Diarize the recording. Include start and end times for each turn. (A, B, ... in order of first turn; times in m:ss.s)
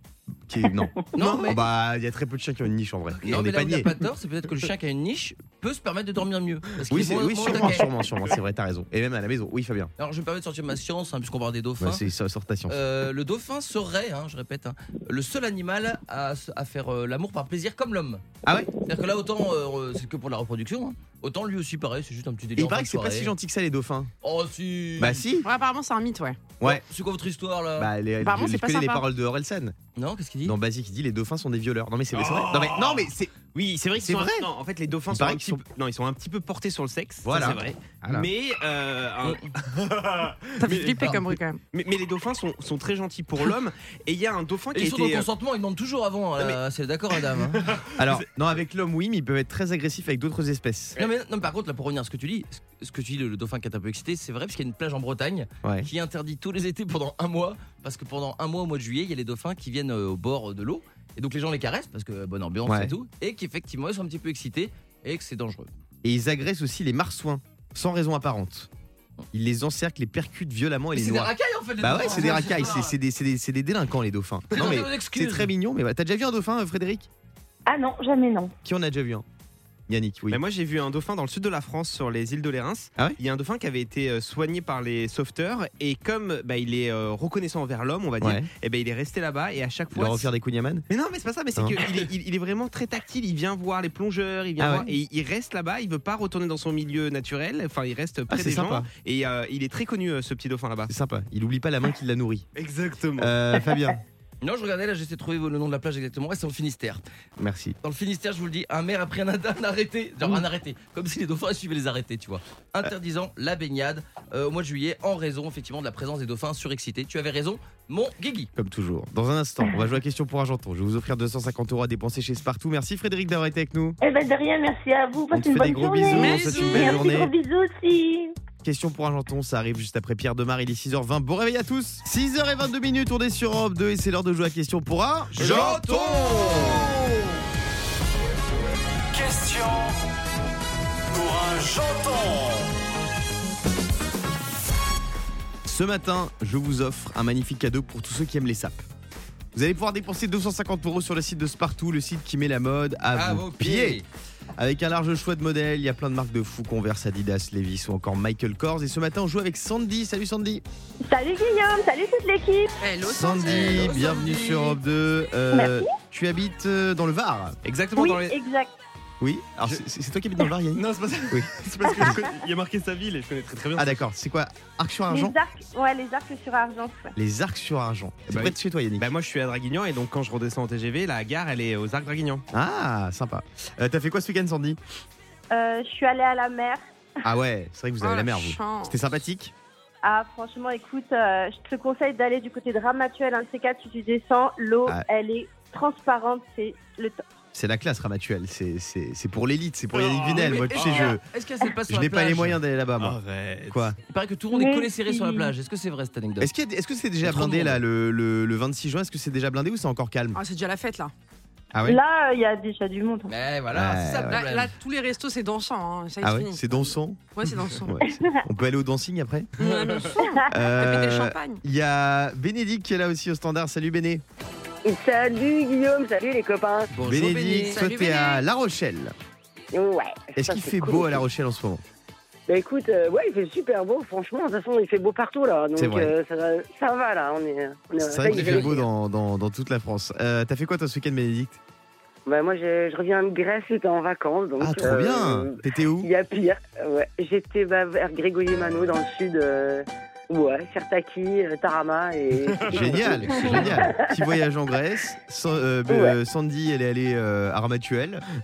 0:00.3-0:03.9 A
0:01.1-0:01.6 B
0:03.2-0:07.9 B
0:06.9-0:09.9 A
0:10.0-0:12.0 B
0:11.8-0:12.8 A
0:12.7-0:18.2 B
0:18.4-0:18.7 A
0:18.8-0:23.3 B
0:22.6-0:24.1 A
0:24.2-0:25.3 B
0:25.0-0:25.5 A
0:25.4-0:26.4 C
0:26.6-0:27.9 B
0:27.8-0:29.7 A
0:28.2-0:29.0 C
0:30.0-0:30.6 B
0:30.4-0:33.3 A
0:32.1-0:45.3 D
0:34.0-0:34.5 A
0:35.1-0:35.6 A
0:37.2-0:38.3 A
0:40.6-0:41.6 C
0:44.7-0:47.7 B
0:47.5-0:48.2 D
0:48.0-0:51.0 A
0:51.0-1:05.7 B
0:55.6-0:55.9 A
1:02.6-1:03.0 A
1:06.0-1:08.7 A
1:09.3-1:17.1 A
1:10.9-1:12.9 B
1:14.5-1:15.5 B
1:17.6-1:18.5 E
1:18.6-1:19.2 A
1:19.9-1:20.4 A
1:20.3-1:30.3 D
1:28.2-1:28.5 A
1:29.9-1:30.8 A
1:30.9-1:40.9 D
1:34.6-1:34.9 A
1:38.3-1:38.9 A
1:40.9-1:42.4 A
1:42.5-1:43.4 D
1:43.2-1:44.0 A
1:44.4-1:47.0 B
1:47.4-1:47.8 A
1:47.8-1:58.5 B
1:58.5-2:04.0 A
2:04.0-2:08.3 E
2:05.3-2:07.3 A
2:06.1-2:07.1 C
2:08.6-2:15.5 A
2:15.3-2:16.8 D
2:15.4-2:16.8 B
2:25.6-2:28.8 A
2:29.5-2:34.0 A
2:33.1-2:34.0 B
2:34.6-2:40.6 A
2:41.0-2:42.8 F
2:42.8-2:44.0 C
2:43.0-2:47.6 A
2:43.4-2:44.8 B
2:45.5-2:45.9 F
2:47.6-2:48.4 D
2:48.0-2:48.7 F
2:49.2-2:52.2 A
2:50.7-2:54.0 D
2:53.8-2:55.4 A
2:55.1-2:57.1 F
2:57.2-2:59.1 A
2:58.3-3:02.4 D
3:02.5-3:04.8 A
3:05.5-3:06.8 F
3:07.2-3:09.5 A
3:08.0-3:08.9 C
3:10.0-3:17.2 F
3:17.5-3:21.2 A
3:19.9-3:21.2 D
3:20.3-3:22.6 B
3:21.9-3:23.2 A
3:23.0-3:23.9 D
3:23.7-3:24.0 A
3:24.1-3:26.5 B
3:24.5-3:25.5 F
3:26.4-3:30.4 A
3:27.2-3:27.8 B
3:30.3-3:31.1 C
3:31.7-3:32.0 A
3:31.8-3:33.3 F
3:33.3-3:34.7 B
3:33.7-3:34.4 A
3:34.3-3:38.1 C
3:36.2-3:37.3 A
3:37.8-3:39.5 A
3:39.6-3:41.6 C
3:40.5-3:44.2 A
3:44.8-3:46.9 E
3:46.9-3:47.8 B
3:47.0-3:49.1 A
3:47.6-3:48.4 C
3:49.7-3:51.2 E
3:50.4-3:51.8 A
3:52.5-3:58.9 E
3:55.8-3:56.1 A
3:58.0-4:01.6 A
3:58.3-3:58.7 B
4:02.2-4:14.2 E
4:04.6-4:06.1 A
4:12.6-4:13.5 D
4:12.7-4:18.2 A
4:15.9-4:16.1 E